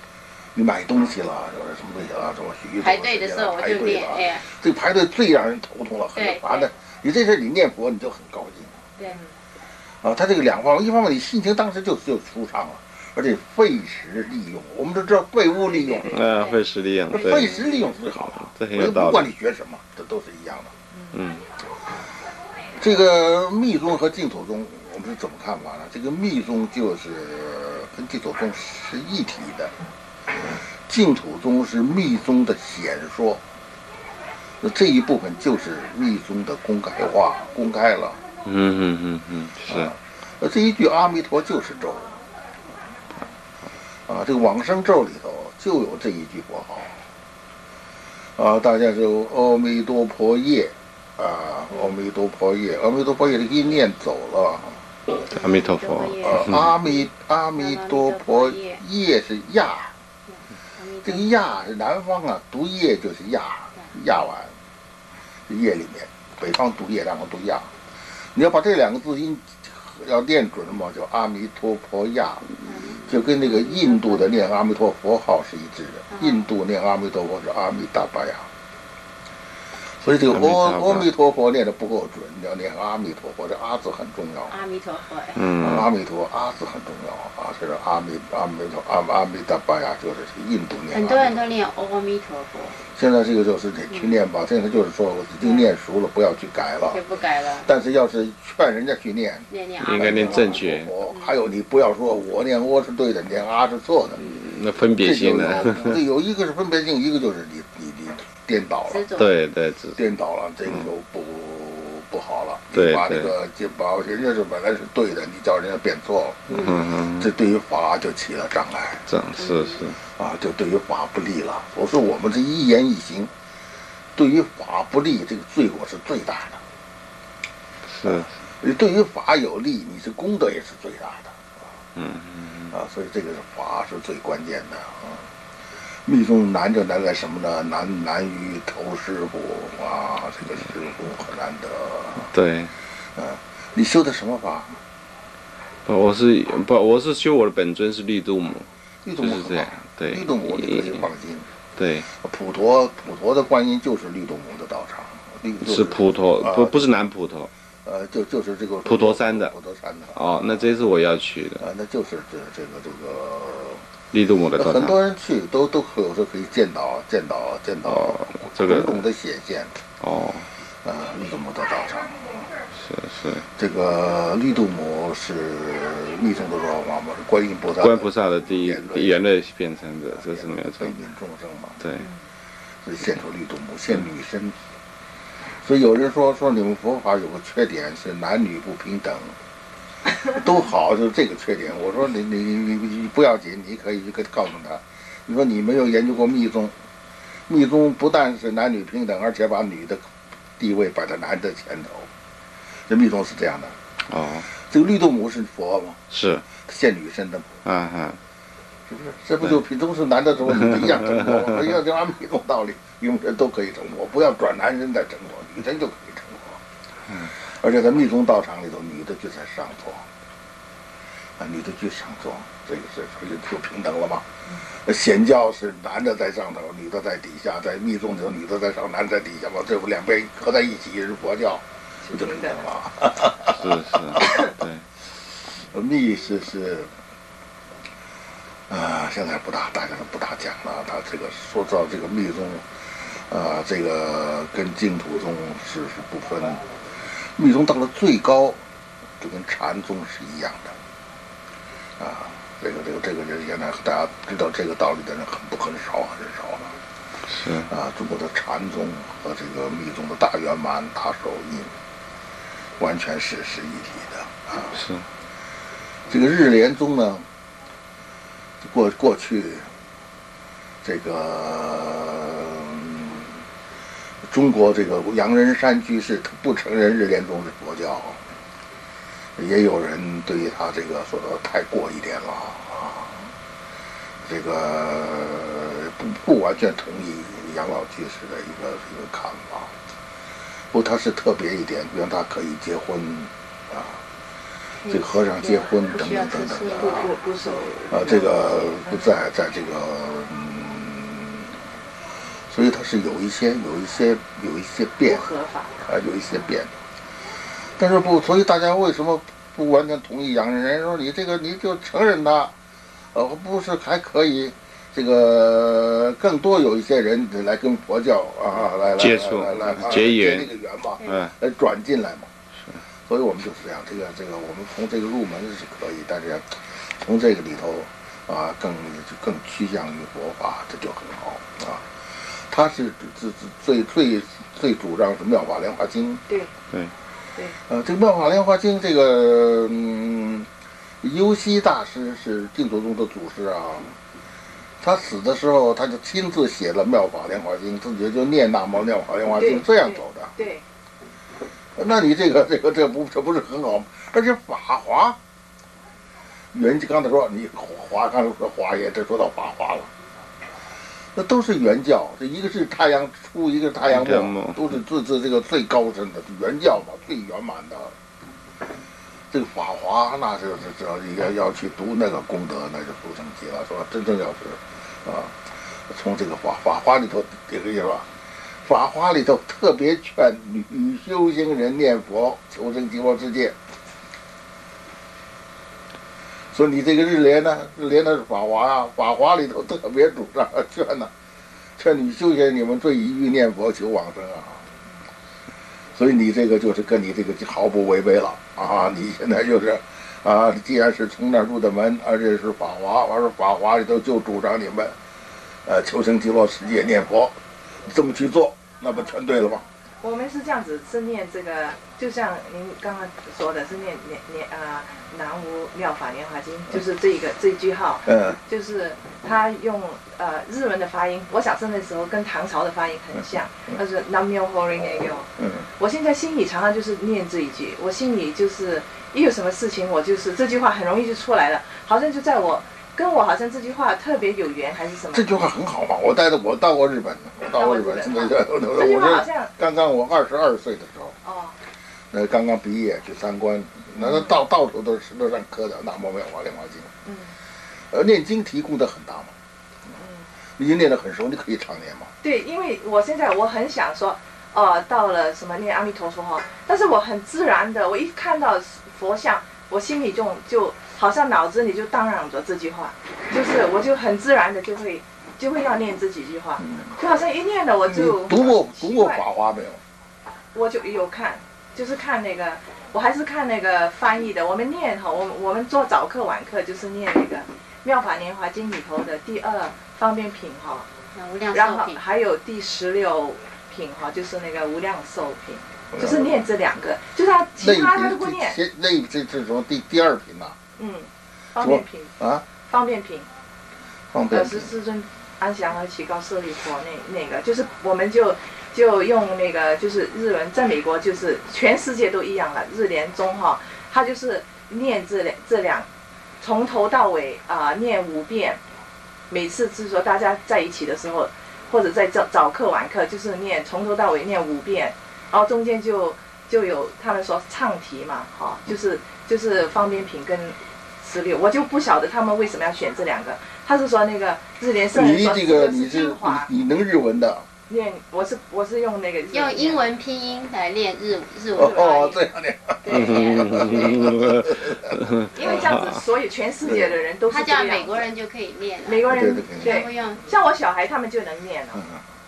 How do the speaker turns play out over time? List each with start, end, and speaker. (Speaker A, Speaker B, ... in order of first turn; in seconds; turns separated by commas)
Speaker A: 0.5-8.9, Speaker B: 2.8-4.4, Speaker B: 6.1-6.7, Speaker A: 10.0-16.2, Speaker C: 16.1-19.3, Speaker B: 16.3-16.6, Speaker A: 17.1-20.7, Speaker B: 17.2-17.9, Speaker C: 21.1-21.4, Speaker A: 22.8-29.7, Speaker A: 30.9-33.4, Speaker A: 34.6-38.2, Speaker C: 38.4-39.9, Speaker A: 39.7-42.2, Speaker A: 44.1-47.0, Speaker A: 48.4-54.8, Speaker B: 55.3-58.8, Speaker C: 55.3-56.7, Speaker A: 56.2-59.9, Speaker B: 60.3-61.2, Speaker A: 61.0-64.5, Speaker A: 65.5-67.7, Speaker A: 68.3-72.5, Speaker B: 72.6-74.5, Speaker A: 73.0-78.5, Speaker B: 76.1-76.5, Speaker A: 80.0-84.5, Speaker C: 80.3-81.1, Speaker B: 84.5-85.4, Speaker C: 85.3-85.9, Speaker A: 85.6-91.4, Speaker B: 90.9-92.8, Speaker A: 92.9-97.0, Speaker B: 93.9-94.2, Speaker B: 95.4-95.7, Speaker B: 96.9-97.7, Speaker A: 97.6-104.2, Speaker B: 99.5-101.3, Speaker C: 99.8-100.9, Speaker C: 104.2-105.9, Speaker A: 105.0-109.1, Speaker B: 108.9-109.3, Speaker C: 109.2-110.0, Speaker A: 110.0-119.0, Speaker C: 112.7-113.3, Speaker B: 116.5-116.8, Speaker C: 116.5-117.3, Speaker C: 119.1-120.0, Speaker B: 119.4-119.8, Speaker A: 120.2-123.3, Speaker A: 124.2-126.6, Speaker C: 127.9-128.3, Speaker A: 128.0-131.5, Speaker C: 131.9-132.7, Speaker A: 132.7-135.3, Speaker A: 136.1-142.3, Speaker C: 142.2-142.7, Speaker A: 143.2-144.8, Speaker C: 145.8-148.7, Speaker A: 149.0-151.5, Speaker C: 149.2-151.1, Speaker C: 151.8-152.1, Speaker A: 152.1-156.9, Speaker C: 155.6-157.5, Speaker A: 157.8-160.7, Speaker C: 158.8-159.5, Speaker C: 160.1-161.6, Speaker A: 161.6-163.8, Speaker C: 164.1-164.9, Speaker A: 164.6-169.8, Speaker C: 167.8-169.0, Speaker C: 170.0-170.5, Speaker A: 170.8-172.6, Speaker C: 172.7-173.5, Speaker A: 173.6-179.2, Speaker C: 177.8-181.0, Speaker A: 180.2-181.8, Speaker C: 181.8-182.1, Speaker A: 182.8-184.6, Speaker A: 185.6-189.3, Speaker A: 190.2-196.7, Speaker A: 197.5-200.0, Speaker A: 200.6-202.1, Speaker A: 202.9-203.8, Speaker C: 204.1-204.5, Speaker A: 204.5-207.6, Speaker C: 206.1-206.4, Speaker C: 207.6-208.2, Speaker A: 208.9-216.6, Speaker C: 210.5-210.9, Speaker A: 217.2-220.1, Speaker A: 221.4-234.5, Speaker D: 232.0-232.6, Speaker C: 233.5-234.8, Speaker A: 235.6-236.9, Speaker A: 238.7-248.6, Speaker A: 249.2-250.8, Speaker A: 252.0-256.7, Speaker C: 257.2-257.7, Speaker A: 257.6-261.7, Speaker A: 262.8-264.8, Speaker C: 264.7-265.1, Speaker A: 266.1-267.2, Speaker A: 268.6-269.7, Speaker A: 270.8-273.4, Speaker A: 274.3-278.2, Speaker A: 279.4-283.3, Speaker A: 284.2-289.7, Speaker A: 290.7-294.0, Speaker B: 294.8-297.1, Speaker A: 294.9-297.1, Speaker D: 296.8-299.1, Speaker A: 297.9-301.6, Speaker A: 302.3-305.3, Speaker D: 305.1-305.8, Speaker A: 305.8-306.7, Speaker A: 307.6-312.5, Speaker A: 313.1-322.3, Speaker C: 319.0-320.5, Speaker C: 321.0-321.3, Speaker A: 323.1-336.2, Speaker A: 337.7-340.5, Speaker A: 341.0-343.9, Speaker A: 344.8-350.3, Speaker D: 349.3-350.6, Speaker A: 351.8-355.2, Speaker A: 356.5-359.9, Speaker A: 361.1-367.9, Speaker C: 363.9-364.6, Speaker A: 369.3-375.4, Speaker A: 375.9-378.1, Speaker A: 378.6-383.6, Speaker A: 386.5-391.1, Speaker A: 391.8-394.6, Speaker A: 395.9-404.9, Speaker A: 405.6-409.6, Speaker D: 410.0-435.3, Speaker A: 418.0-418.4, Speaker A: 425.4-425.6, Speaker A: 435.1-441.2, Speaker D: 437.4-439.5, Speaker D: 441.2-441.6, Speaker A: 442.1-446.9, Speaker D: 444.0-444.3, Speaker D: 447.1-447.3, Speaker A: 447.9-449.3, Speaker D: 449.9-450.3, Speaker A: 450.6-452.1, Speaker D: 452.2-469.2, Speaker A: 466.6-466.9, Speaker A: 467.9-469.8, Speaker D: 470.5-480.9, Speaker B: 481.1-482.0, Speaker D: 481.5-488.6, Speaker A: 485.9-486.4, Speaker A: 487.6-490.6, Speaker D: 490.8-493.3, Speaker A: 491.6-492.4, Speaker A: 494.1-494.7, Speaker D: 494.3-505.9, Speaker D: 506.4-508.6, Speaker D: 509.3-526.5, Speaker A: 524.9-527.5, Speaker D: 527.7-529.9, Speaker B: 529.3-532.2, Speaker A: 531.5-535.6, Speaker D: 531.7-531.9, Speaker B: 532.8-534.0, Speaker C: 532.9-536.0, Speaker D: 535.3-538.1, Speaker A: 536.6-537.0, Speaker B: 537.3-540.3, Speaker D: 538.8-541.8, Speaker A: 539.0-539.9, Speaker A: 541.7-542.0